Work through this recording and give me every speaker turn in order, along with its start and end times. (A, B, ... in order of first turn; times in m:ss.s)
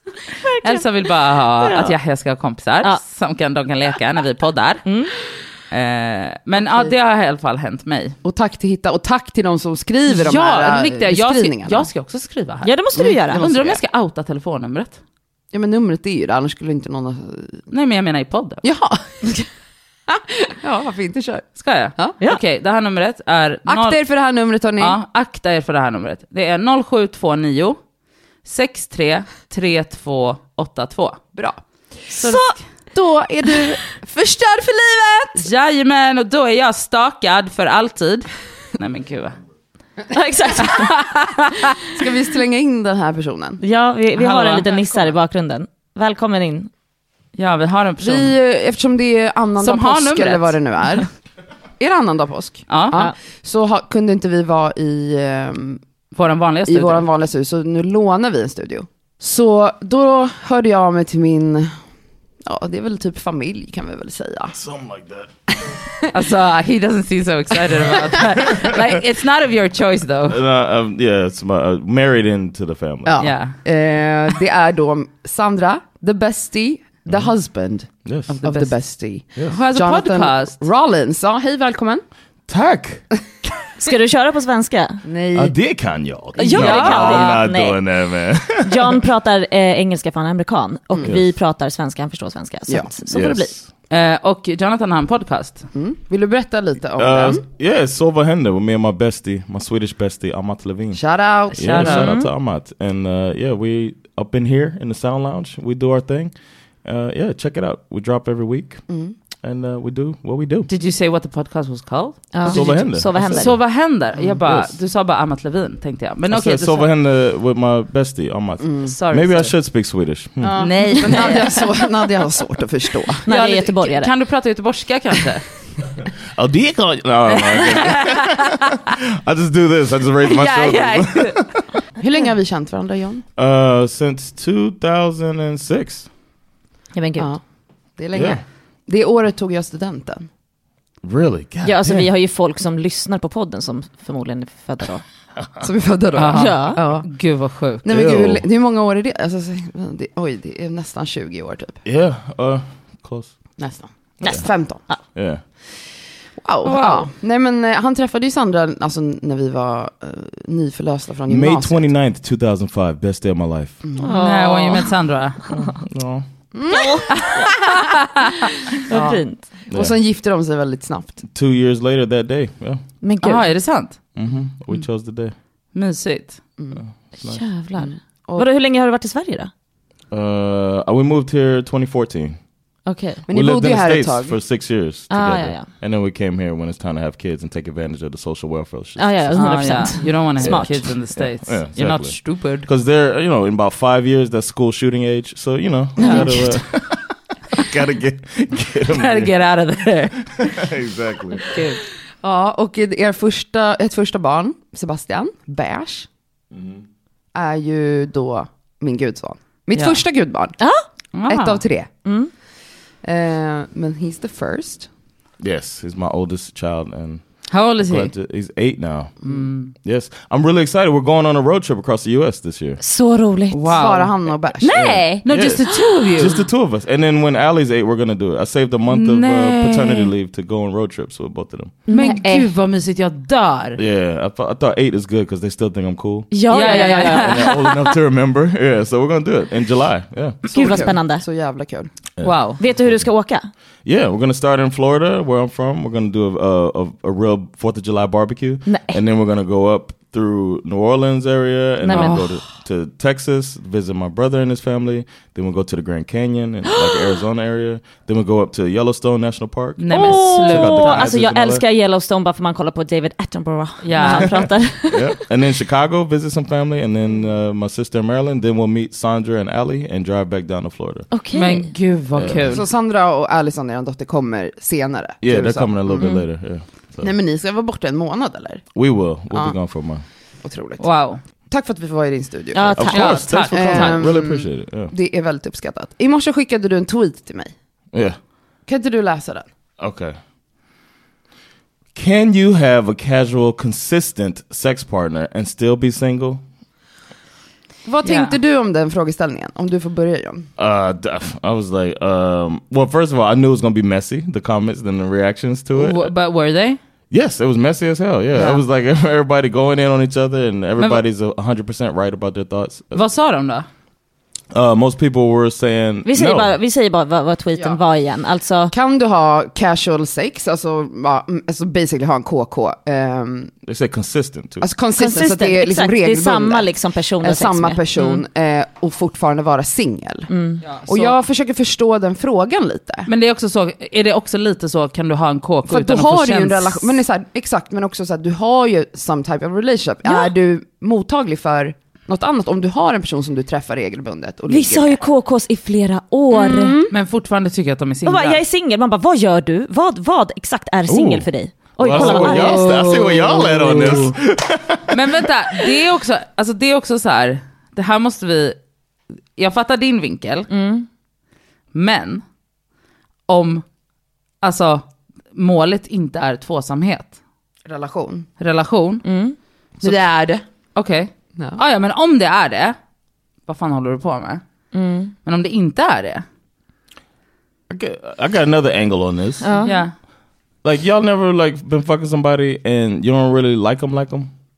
0:00.4-0:00.9 A
0:00.6-0:04.8 B
0:01.6-0:01.9 A
0:04.8-0:05.1 A
0:05.7-0:08.2 B
0:08.2-0:11.9 C
0:10.1-0:12.7 B
0:12.6-0:13.4 A
0:13.0-0:13.8 C
0:13.3-0:15.0 B
0:15.5-0:17.6 C
0:17.7-0:18.6 B
0:18.6-0:19.4 C
0:20.1-0:22.2 C
0:21.6-0:24.0 B
0:23.7-0:25.0 C
0:24.8-0:27.8 B
0:28.4-0:31.2 B
0:32.1-0:32.6 A
0:32.2-0:32.6 B
0:32.9-0:35.4 C
0:35.3-0:39.4 B
0:40.1-0:40.9 A
0:40.7-0:41.5 B
0:41.9-0:43.6 C
0:43.6-0:46.7 A
0:44.2-0:45.1 B
0:47.3-0:48.3 B
0:48.0-0:51.1 C
0:49.6-0:50.6 B
0:51.8-0:55.8 C
0:52.7-0:53.0 B
0:56.1-0:57.1 B
0:56.7-1:01.7 C
1:02.4-1:04.6 C
1:04.5-1:05.3 D
1:06.1-1:10.4 B
1:10.3-1:13.3 D
1:13.0-1:22.0 C
1:13.2-1:13.6 B
1:18.0-1:18.4 D
1:18.3-1:18.7 B
1:19.5-1:20.6 B
1:22.5-1:23.0 D
1:23.8-1:25.0 A
1:25.0-1:25.5 C
1:25.3-1:29.0 D
1:26.4-1:27.8 A
1:26.5-1:27.4 B
1:28.6-1:33.5 A
1:33.1-1:33.7 D
1:33.9-1:35.7 B
1:35.7-1:37.4 C
1:37.0-1:46.3 D
1:40.9-1:42.0 C
1:41.6-1:42.3 A
1:41.8-1:42.0 B
1:46.8-1:48.8 D
1:48.9-1:49.1 C
1:49.4-1:50.7 D
1:50.7-1:56.9 B
1:52.3-1:53.5 A
1:52.4-1:53.6 D
1:54.5-1:54.7 D
1:56.3-2:00.9 D
1:58.6-1:58.9 C
1:58.8-1:59.5 B
2:00.4-2:03.2 C
2:00.6-2:01.7 B
2:03.2-2:05.4 B
2:03.2-2:04.1 A
2:06.3-2:11.6 D
2:07.4-2:08.5 B
2:10.3-2:11.5 B
2:12.0-2:13.2 C
2:13.4-2:16.1 D
2:16.9-2:17.3 A
2:18.0-2:20.3 C
2:18.1-2:18.4 D
2:21.0-2:22.1 D
2:21.6-2:25.0 A
2:25.6-2:27.1 C
2:26.2-2:27.8 B
2:26.3-2:26.8 A
2:27.8-2:31.8 C
2:27.8-2:28.4 D
2:31.8-2:33.3 D
2:33.6-2:34.8 C
2:34.2-2:35.0 A
2:35.1-2:35.4 D
2:36.4-2:41.9 C
2:36.6-2:37.1 B
2:41.3-2:43.8 D
2:43.8-2:44.1 C
2:44.0-2:44.9 A
2:44.2-2:45.4 B
2:45.5-2:46.2 D
2:46.5-2:47.5 C
2:46.7-2:47.5 A
2:48.9-2:49.4 A
2:48.9-2:49.2 B
2:49.7-2:50.0 D
2:49.7-2:51.2 C
2:51.3-2:52.8 D
2:53.0-2:53.5 A
2:53.2-2:54.0 B
2:54.2-2:55.3 D
2:55.7-2:56.4 B
2:56.8-2:57.4 D
2:57.2-2:59.5 A
2:57.8-2:58.5 C
3:00.1-3:02.4 D
3:02.8-3:03.2 A
3:03.3-3:04.4 C
3:03.3-3:19.3 D
3:05.1-3:05.7 A
3:09.0-3:10.8 A
3:09.3-3:12.7 B
3:16.0-3:16.6 A
3:16.0-3:16.3 B
3:18.9-3:20.6 B
3:20.4-3:21.6 D
3:21.4-3:21.8 B
3:22.2-3:26.1 C
3:26.5-3:26.8 D
3:27.3-3:30.6 C
3:29.7-3:30.0 B
3:30.6-3:30.8 A
3:31.1-3:31.6 B
3:31.3-3:31.9 C
3:32.0-3:32.3 A
3:33.0-3:34.9 C
3:35.4-3:39.1 D
3:37.5-3:38.1 B
3:39.2-3:39.7 B
3:39.8-3:42.8 D
3:42.8-3:43.7 A
3:43.5-3:44.1 B
3:43.7-3:44.9 C
3:44.6-3:46.0 A
3:44.7-3:51.8 D
3:45.2-3:46.4 B
3:48.9-3:50.1 B
3:51.9-3:52.5 A
3:51.9-3:53.8 B
3:53.8-3:56.3 D
3:56.3-3:57.4 A
3:56.5-3:57.9 B
3:57.1-4:00.8 D
4:00.5-4:01.9 C
4:00.5-4:01.2 A
4:02.2-4:03.0 D
4:02.2-4:02.6 B
4:02.6-4:03.5 A
4:03.8-4:21.6 D
4:08.6-4:09.0 A
4:11.8-4:12.2 A
4:12.0-4:12.2 B
4:19.8-4:21.1 B
4:19.9-4:25.2 A
4:23.8-4:24.4 B
4:24.1-4:31.1 D
4:31.1-4:31.7 A
4:31.3-4:32.6 B
4:32.1-4:32.6 D
4:32.4-4:36.1 C
4:35.2-4:37.1 D
4:37.0-4:38.7 C
4:38.7-4:40.0 D
4:39.3-4:39.6 C
4:40.4-4:40.9 C
4:40.8-4:41.2 B
4:41.5-4:42.9 C
4:42.5-4:43.4 A
4:42.8-4:44.9 D
4:42.9-4:44.1 B
4:43.5-4:47.5 C
4:47.9-4:48.2 D
4:48.6-4:49.5 C
4:49.8-4:50.2 D
4:51.9-4:56.4 D
4:57.8-5:00.5 C
4:58.0-4:58.4 B
5:00.6-5:06.1 D
5:05.7-5:06.8 B
5:07.1-5:13.0 D
5:10.8-5:11.0 B
5:12.9-5:13.7 B
5:14.5-5:16.5 D
5:16.0-5:18.7 A
5:18.7-5:23.5 C
5:23.6-5:24.7 D
5:24.6-5:26.7 C
5:25.0-5:27.8 A
5:27.2-5:30.3 C
5:30.3-5:30.6 A
5:30.6-5:31.2 B
5:30.8-5:33.1 C
5:33.0-5:37.0 B
5:35.7-5:45.0 C
5:40.0-5:40.3 A
5:44.5-5:46.8 A
5:46.4-5:46.9 C
5:46.9-5:48.4 B
5:48.0-5:52.7 A
5:50.9-5:55.2 D
5:51.9-5:54.1 B
5:54.9-5:58.6 B
5:59.4-6:00.5 B
6:00.5-6:00.8 A
6:01.7-6:02.2 B
6:03.3-6:03.6 B
6:04.4-6:07.1 B
6:07.6-6:08.3 C
6:08.4-6:09.0 B
6:09.0-6:09.4 A
6:09.8-6:12.8 B
6:13.5-6:14.4 B
6:14.7-6:15.1 A
6:15.2-6:16.2 B
6:17.7-6:19.6 D
6:19.4-6:19.8 A
6:19.6-6:19.9 B
6:20.6-6:24.3 D